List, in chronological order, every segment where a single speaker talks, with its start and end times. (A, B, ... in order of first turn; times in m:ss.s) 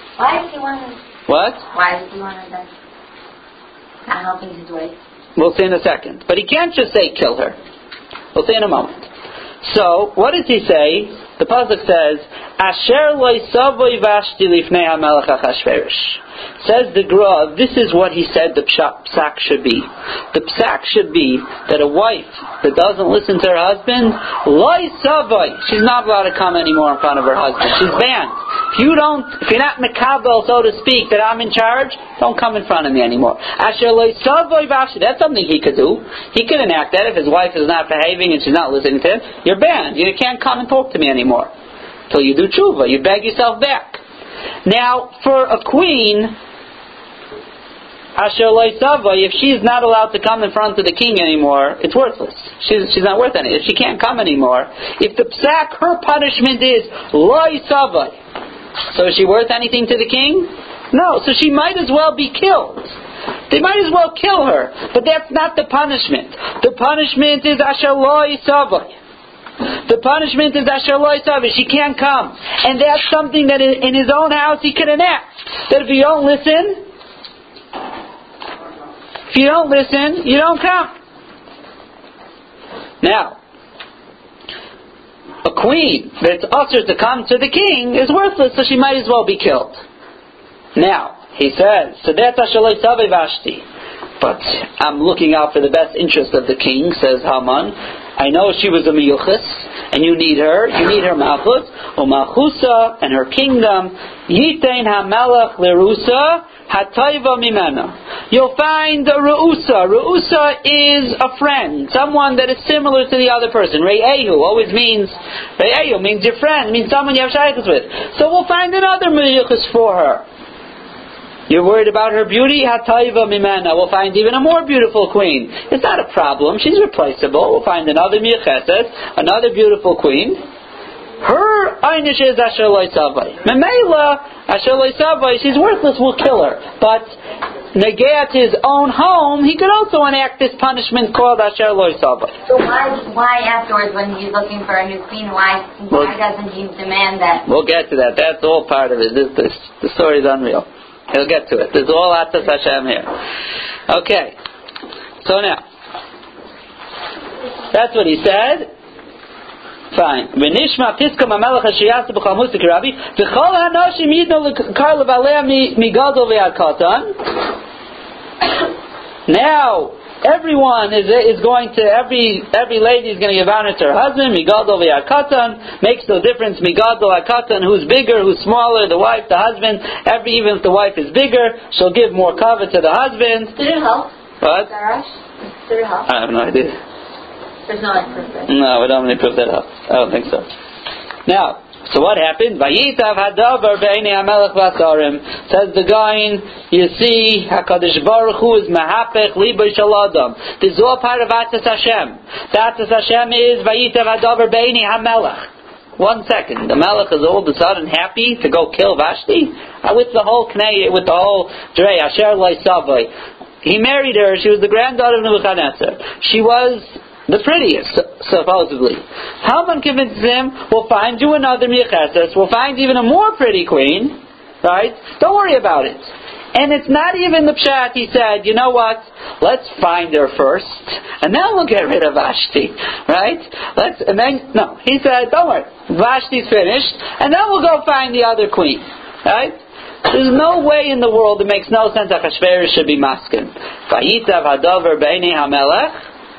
0:00.2-0:01.0 A
0:01.3-0:01.6 B
0:01.7-0:02.7 A
0:04.0-0:05.0 A
0:05.4-0:07.6 B
0:08.3-0:09.1 B
0:09.6-0:41.5 B
0:42.1-0:44.0 B
0:44.6-0:46.3 B
0:48.2-0:58.2 B
0:58.9-1:03.0 B
1:03.5-1:08.9 B
1:09.8-1:16.8 B
1:19.3-1:20.9 B
1:23.0-1:23.4 B
1:25.4-1:29.8 B
1:30.7-1:33.6 B
1:34.2-2:00.2 B
2:01.5-2:10.4 B
2:11.2-2:17.2 B
2:17.7-2:22.3 B
2:22.5-2:27.4 A
2:27.4-2:33.1 B
2:33.9-2:34.4 B
2:35.2-2:35.6 B
2:37.7-2:38.7 B
2:39.9-2:47.1 B
2:49.3-3:03.5 B
3:03.6-3:05.1 A
3:04.4-3:04.7 B
3:05.6-3:06.1 A
3:06.1-3:06.8 B
3:07.7-3:08.5 A
3:08.5-3:10.4 B
3:11.3-3:33.1 B
3:33.6-4:05.9 B